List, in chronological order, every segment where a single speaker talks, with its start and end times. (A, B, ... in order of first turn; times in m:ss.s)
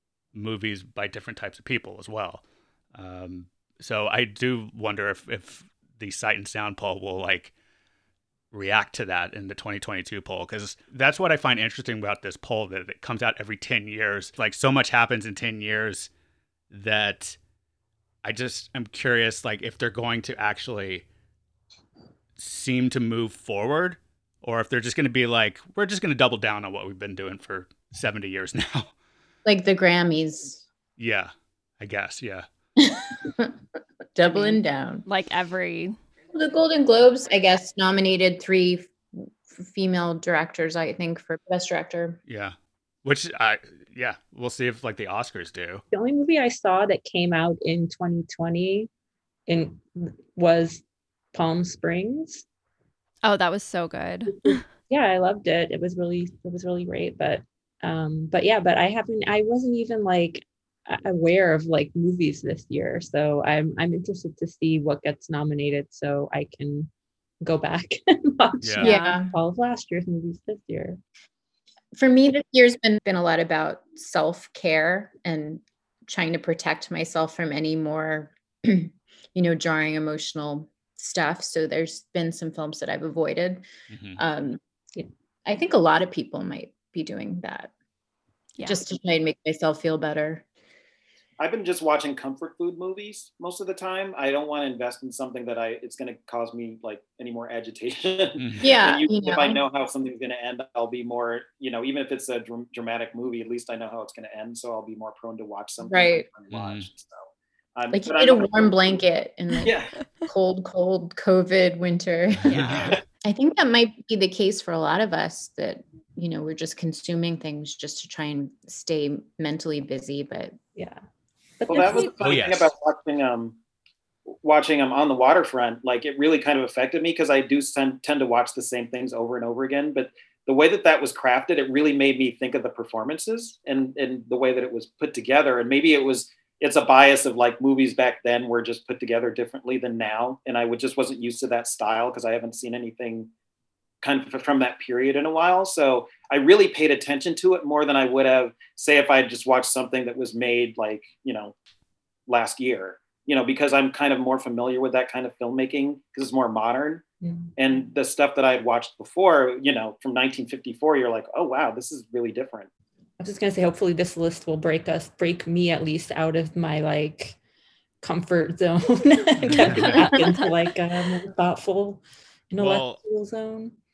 0:00.3-0:02.4 A
0:02.9-0:07.5 A
0:08.5-0:16.1 A
0:16.7-0:17.4 A
0:18.2-0:21.0 A
0:22.4-0:28.9 A
0:29.4-0:30.6 B
0:31.0-0:32.4 A
0:32.8-0:33.6 B
0:34.2-0:35.0 B
0:34.3-0:35.9 C
0:36.3-0:42.2 B
0:42.3-0:45.8 A
0:45.9-0:48.9 D
0:49.5-0:52.4 D
0:53.2-0:54.6 C
0:54.4-1:06.9 D
1:07.4-1:11.0 D
1:08.6-1:08.9 A
1:08.8-1:09.3 B
1:08.8-1:09.2 C
1:11.9-1:23.6 B
1:23.9-1:24.2 A
1:24.2-1:24.6 B
1:25.4-1:27.7 B
1:28.6-1:28.8 C
1:28.6-1:30.4 B
1:31.4-1:49.0 E
1:38.4-1:38.7 A
1:38.6-1:39.6 B
1:45.9-1:46.3 B
1:46.5-1:46.9 A
1:47.9-2:00.6 B
1:49.6-1:49.9 E
1:52.5-1:53.0 A
1:52.5-1:53.0 E
2:00.8-2:01.0 D
2:01.6-2:02.1 D
2:01.7-2:03.6 E
2:02.2-2:02.7 A
2:04.3-2:23.3 E
2:24.0-2:31.5 E
2:32.3-2:37.0 E
2:37.2-2:37.5 D
2:37.6-2:42.7 E
2:43.2-2:47.4 D
2:48.0-2:53.8 D
2:49.4-2:50.1 A
2:49.5-2:50.5 C
2:52.6-2:53.0 A